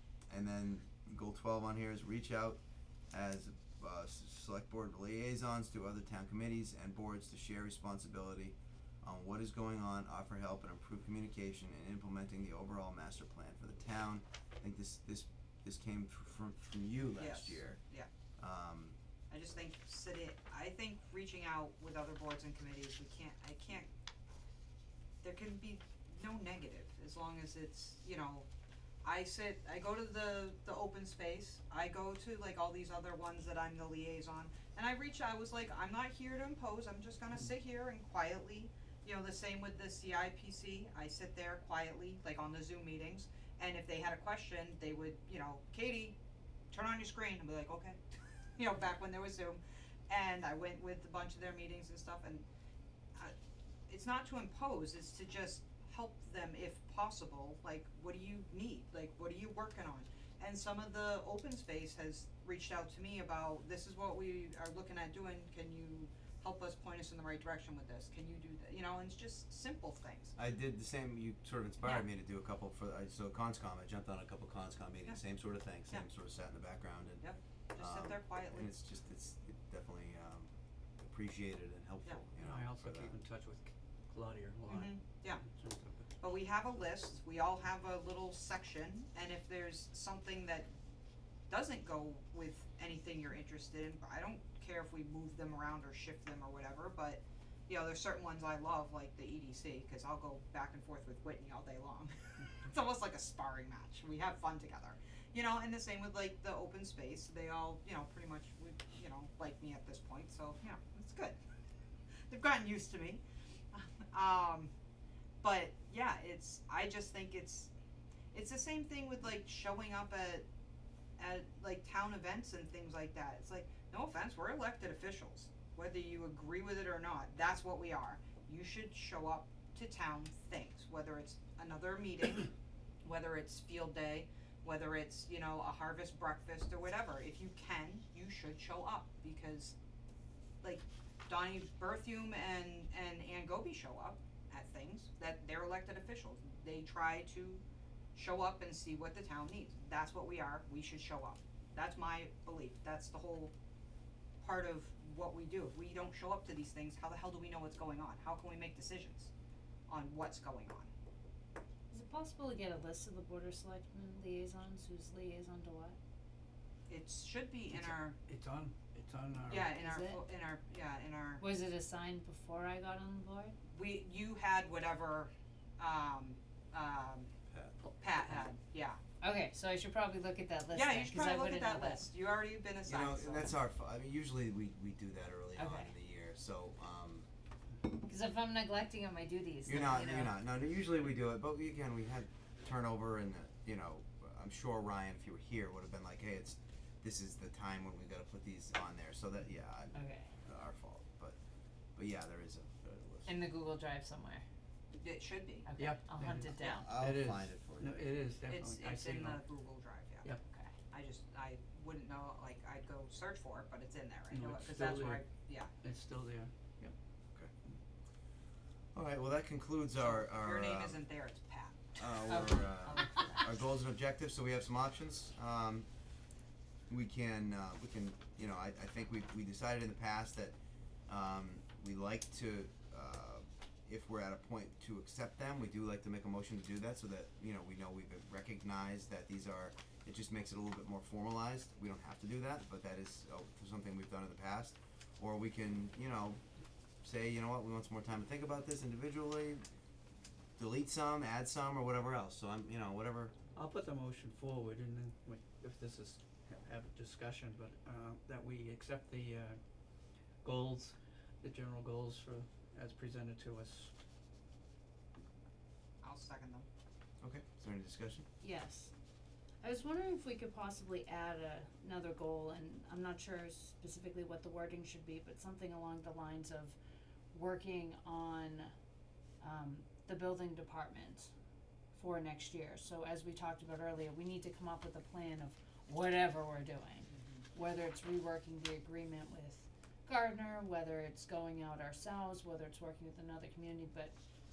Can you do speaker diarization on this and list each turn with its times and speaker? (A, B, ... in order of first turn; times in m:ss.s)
0:00.3-0:02.6 A
0:03.1-0:17.8 A
0:17.2-0:18.1 B
0:18.4-0:19.0 A
0:19.3-0:23.9 B
0:25.2-0:28.5 B
0:29.0-0:46.2 B
0:46.7-0:48.0 B
0:48.6-0:52.4 B
0:53.9-1:10.3 B
1:10.4-1:17.2 A
1:17.2-1:18.7 B
1:17.8-1:23.1 A
1:22.4-1:26.1 C
1:24.7-1:25.4 B
1:26.2-1:30.7 B
1:31.5-1:51.4 B
1:52.3-1:54.7 B
1:55.4-1:57.7 B
1:58.3-2:00.4 B
2:01.2-2:12.5 B
2:13.0-2:19.7 B
2:20.6-2:27.6 B
2:28.1-2:33.5 B
2:34.4-2:39.3 B
2:39.9-2:40.9 B
2:41.9-2:46.0 D
2:46.9-2:48.2 B
2:47.7-2:49.8 C
2:49.5-2:51.4 B
2:49.8-2:50.2 D
2:51.4-2:53.6 D
2:53.7-2:57.3 B
2:57.5-2:57.8 A
2:58.0-2:59.0 B
2:59.2-3:02.1 D
3:00.7-3:03.5 B
3:02.8-3:07.3 A
3:05.6-3:05.9 D
3:07.8-3:10.3 D
3:09.6-3:21.4 A
3:19.9-3:20.3 D
3:22.0-3:23.4 A
3:23.2-3:24.4 D
3:25.0-3:25.7 B
3:25.6-3:26.9 D
3:25.8-3:29.4 C
3:26.5-3:28.2 A
3:28.5-3:30.3 B
3:30.4-3:30.7 D
3:30.9-3:35.7 B
3:34.3-3:35.2 C
3:35.8-3:36.9 C
3:38.9-3:41.0 A
3:40.0-3:43.4 B
3:42.0-3:45.9 A
3:42.3-3:43.4 D
3:46.9-3:50.6 A
3:51.1-4:06.4 A
4:07.0-4:09.6 A
4:10.6-4:13.4 A
4:13.5-4:19.6 C
4:20.4-4:23.9 C
4:26.0-4:26.6 B
4:27.2-4:28.2 A
4:28.4-4:28.9 D
4:29.6-4:36.8 D
4:37.3-4:38.7 D
4:39.4-4:41.3 D
4:41.9-4:54.1 D
4:47.1-4:47.4 B